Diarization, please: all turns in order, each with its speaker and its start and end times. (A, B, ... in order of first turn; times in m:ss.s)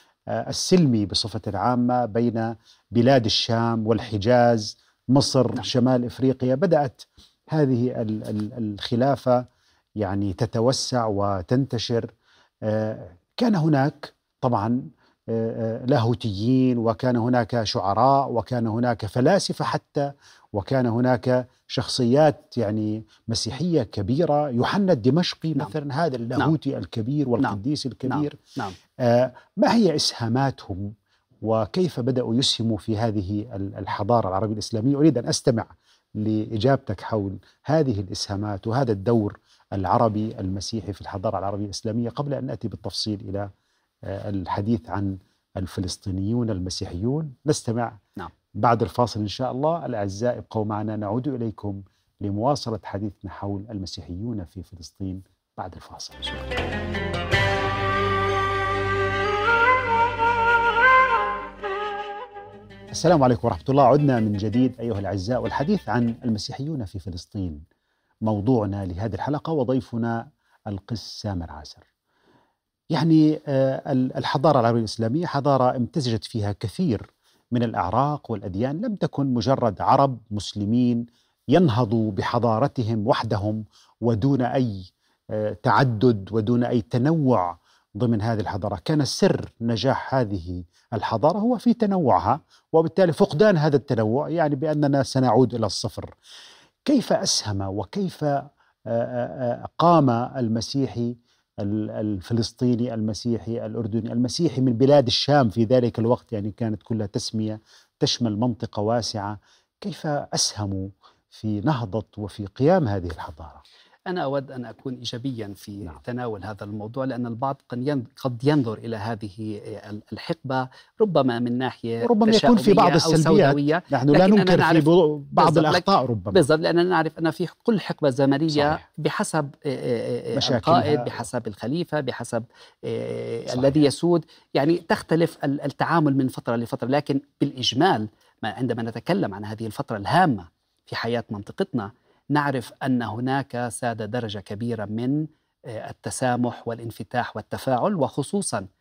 0:00.3-0:09.4 A
0:10.0-0:12.1 A
0:12.6-0:28.4 A
0:27.4-0:28.8 B
0:29.0-0:30.9 A
0:31.4-0:43.5 A
0:44.0-0:48.0 A
0:48.6-0:56.5 A
1:02.9-1:07.6 A
1:08.2-1:11.8 A
1:12.9-1:36.1 A
1:36.9-1:53.6 A
1:54.1-2:04.8 B
2:02.0-2:06.4 A
2:05.4-2:28.7 B
2:08.5-2:08.8 A
2:10.4-2:11.2 A
2:13.5-2:13.8 A